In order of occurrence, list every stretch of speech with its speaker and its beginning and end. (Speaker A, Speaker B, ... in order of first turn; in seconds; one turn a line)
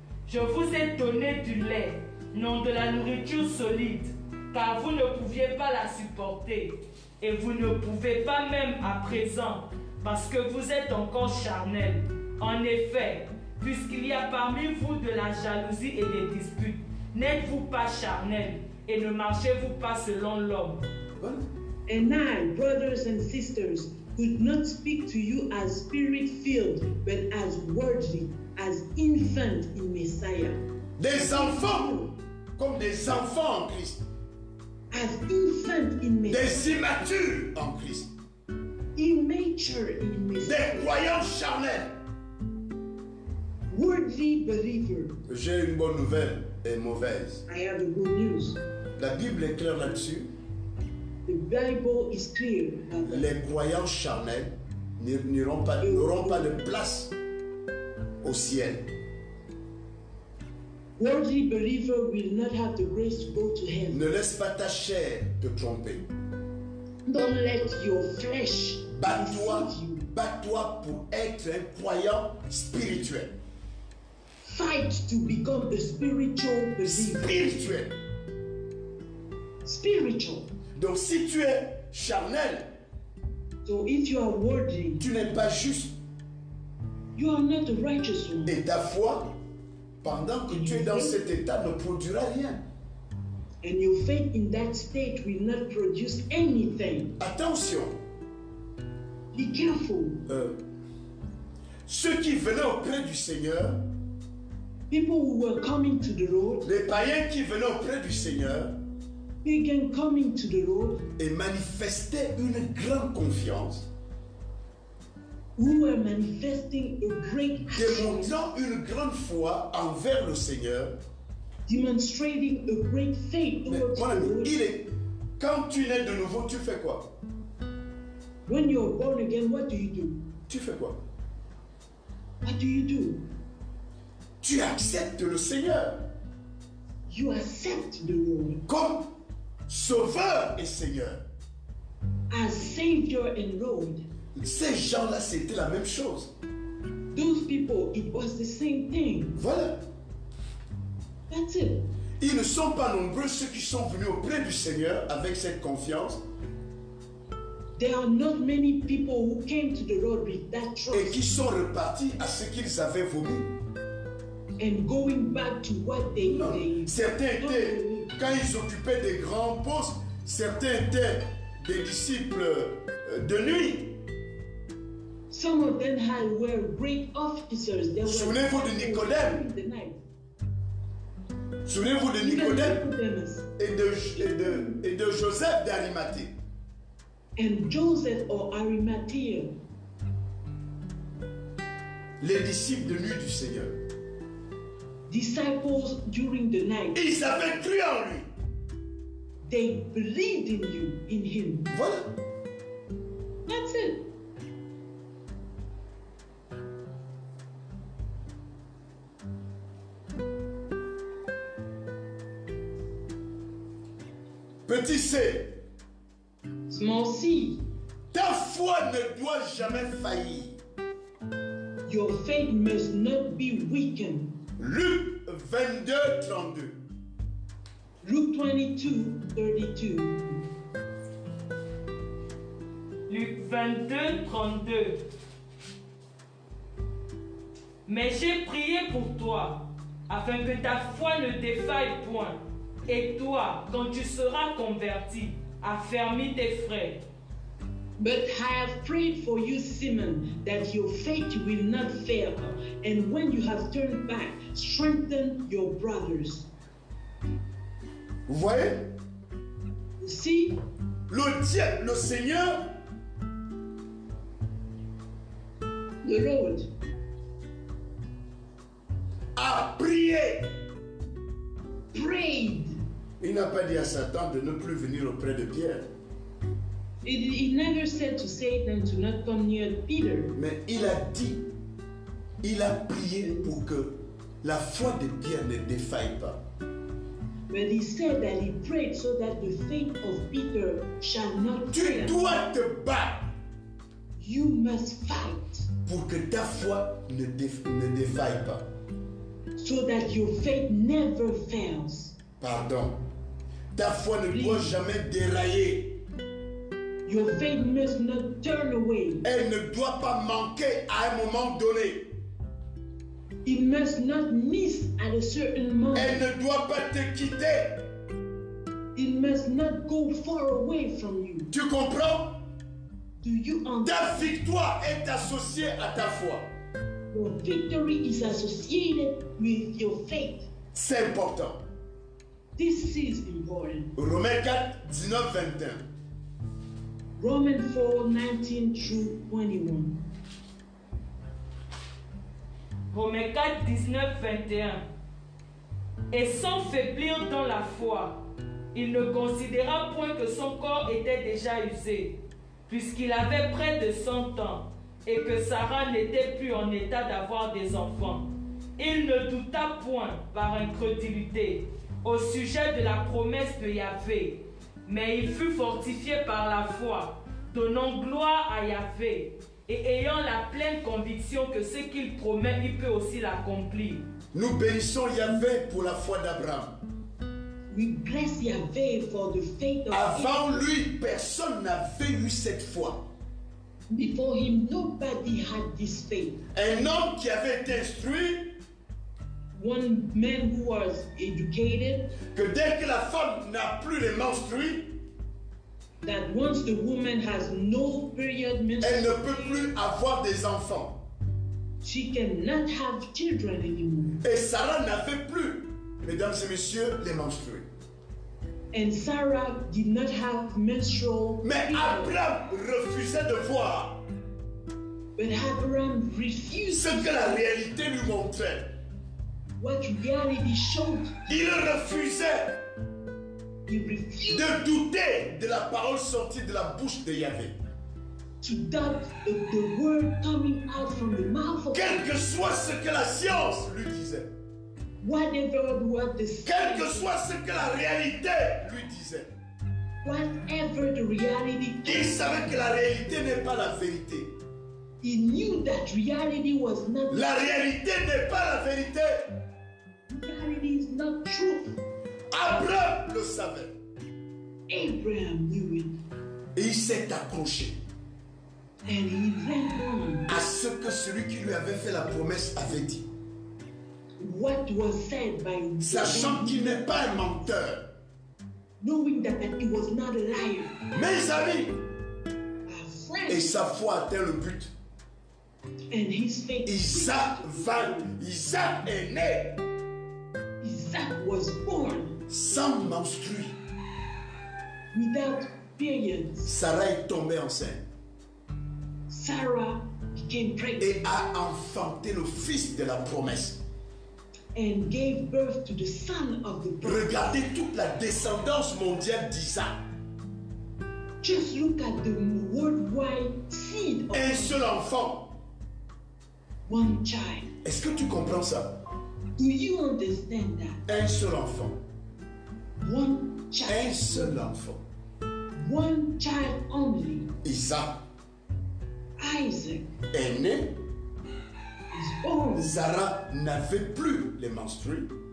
Speaker A: 0.2-20.8
Speaker B: 21.2-21.4
Speaker C: 21.9-30.6
Speaker B: 31.0-32.0
Speaker C: 31.1-32.1
Speaker B: 32.6-34.0
Speaker C: 34.9-36.8
Speaker B: 36.3-38.1
Speaker C: 39.0-40.9
Speaker B: 40.4-42.0
Speaker C: 43.7-45.2
Speaker B: 45.3-47.4
Speaker C: 47.5-48.6
Speaker B: 49.0-50.3
Speaker C: 51.2-53.3
Speaker B: 53.0-57.1
Speaker C: 55.8-56.6
Speaker B: 58.2-58.9
Speaker C: 61.0-64.0
Speaker B: 63.9-66.1
Speaker C: 67.0-70.1
Speaker B: 68.9-73.3
Speaker C: 74.4-77.5
Speaker B: 76.8-78.0
Speaker C: 79.6-80.5
Speaker B: 80.7-82.7
Speaker C: 83.6-85.0
Speaker B: 85.0-86.0
Speaker C: 87.1-88.6
Speaker B: 88.5-89.3
Speaker B: 90.0-92.6
Speaker C: 90.5-91.3
Speaker C: 93.6-97.1
Speaker B: 97.2-98.0
Speaker C: 99.3-100.2
Speaker B: 100.3-100.6
Speaker B: 101.8-103.8
Speaker C: 104.9-106.7
Speaker B: 106.6-108.8
Speaker C: 109.4-111.1
Speaker B: 111.2-113.9
Speaker C: 115.5-118.5
Speaker B: 117.7-121.0
Speaker C: 121.7-124.5
Speaker B: 123.7-127.1
Speaker C: 128.4-130.2
Speaker B: 130.5-131.0
Speaker C: 132.4-133.2
Speaker B: 134.4-136.1
Speaker C: 137.1-138.6
Speaker B: 138.7-139.1
Speaker B: 139.7-141.2
Speaker C: 142.3-144.0
Speaker B: 144.3-146.3
Speaker C: 147.1-149.4
Speaker B: 149.3-149.8
Speaker C: 151.3-151.9
Speaker B: 152.2-156.2
Speaker C: 157.8-161.2
Speaker B: 160.9-163.5
Speaker C: 164.6-168.4
Speaker B: 166.2-174.0
Speaker C: 175.3-180.0
Speaker B: 178.0-179.4
Speaker B: 181.6-182.8
Speaker C: 182.2-183.5
Speaker B: 183.6-186.3
Speaker C: 184.2-184.8
Speaker C: 187.3-189.5
Speaker B: 192.2-193.8
Speaker C: 195.1-197.0
Speaker B: 196.9-198.3
Speaker C: 199.4-201.7
Speaker B: 201.7-202.1
Speaker C: 203.5-204.0
Speaker B: 214.7-215.5
Speaker C: 216.7-217.6
Speaker B: 218.1-220.6
Speaker C: 221.8-224.3
Speaker B: 224.6-226.8
Speaker C: 228.0-230.4
Speaker A: 233.1-235.0
Speaker A: 237.8-247.0
Speaker C: 248.0-256.5
Speaker B: 258.3-258.9
Speaker C: 260.0-260.6
Speaker B: 261.1-262.7
Speaker C: 266.0-266.7
Speaker B: 269.4-270.5
Speaker C: 271.9-272.8
Speaker B: 273.2-275.9
Speaker C: 277.0-280.3
Speaker B: 280.4-281.5
Speaker B: 282.4-286.4
Speaker C: 283.2-283.6
Speaker C: 287.5-292.2
Speaker B: 291.7-293.3
Speaker C: 294.1-295.7
Speaker B: 295.9-298.7
Speaker C: 299.6-302.1
Speaker B: 302.4-303.0
Speaker B: 303.7-306.0
Speaker C: 304.3-304.8
Speaker C: 307.1-309.2
Speaker B: 309.2-312.1
Speaker C: 313.4-316.2
Speaker B: 315.9-317.9
Speaker C: 318.9-321.5
Speaker B: 321.5-322.4
Speaker C: 323.2-324.4
Speaker B: 323.8-326.5
Speaker C: 327.1-330.5
Speaker B: 330.7-331.6
Speaker C: 332.6-333.9
Speaker B: 333.9-335.9
Speaker C: 337.2-340.0
Speaker A: 342.9-344.8
Speaker A: 346.1-348.2
Speaker A: 348.7-352.1
Speaker A: 352.7-374.0
Speaker B: 374.3-376.8
Speaker C: 377.7-380.7
Speaker B: 379.9-383.0
Speaker C: 383.9-386.4
Speaker B: 386.5-388.5
Speaker C: 389.5-392.1
Speaker B: 392.3-394.9
Speaker C: 396.0-399.6
Speaker B: 398.8-401.0
Speaker C: 401.8-404.2
Speaker B: 404.2-407.6
Speaker C: 408.7-412.1
Speaker B: 411.4-414.0
Speaker C: 415.1-417.4
Speaker B: 416.7-418.7
Speaker C: 419.6-421.5
Speaker B: 421.3-422.6
Speaker C: 423.7-424.6
Speaker B: 424.3-427.6
Speaker C: 428.4-432.1
Speaker B: 431.7-434.3
Speaker C: 435.0-437.1
Speaker B: 436.4-439.3
Speaker C: 440.0-442.6
Speaker B: 441.8-444.3
Speaker C: 445.0-447.5
Speaker B: 447.1-449.3
Speaker C: 450.1-451.8
Speaker B: 452.3-453.7
Speaker C: 454.7-455.9
Speaker B: 456.5-457.8
Speaker C: 458.9-460.3
Speaker B: 460.3-463.1
Speaker C: 464.2-467.5
Speaker B: 465.8-467.9
Speaker C: 468.8-470.7
Speaker B: 470.9-471.8
Speaker C: 472.6-473.5
Speaker B: 473.3-474.7
Speaker C: 475.9-478.1
Speaker B: 476.6-479.6
Speaker C: 480.6-482.2
Speaker B: 482.3-483.6
Speaker C: 484.9-486.5
Speaker B: 486.4-487.8
Speaker C: 489.1-491.0
Speaker B: 490.8-493.6
Speaker C: 494.5-497.4
Speaker B: 496.8-499.8
Speaker C: 501.2-504.7
Speaker B: 504.1-505.3
Speaker C: 506.7-507.5
Speaker B: 507.6-508.8
Speaker C: 509.3-510.8
Speaker B: 510.9-511.8
Speaker C: 512.8-514.4
Speaker B: 513.7-514.8
Speaker C: 515.5-517.3
Speaker B: 517.4-518.0
Speaker C: 519.2-519.9
Speaker B: 520.1-520.8
Speaker C: 521.9-522.8
Speaker B: 522.5-525.1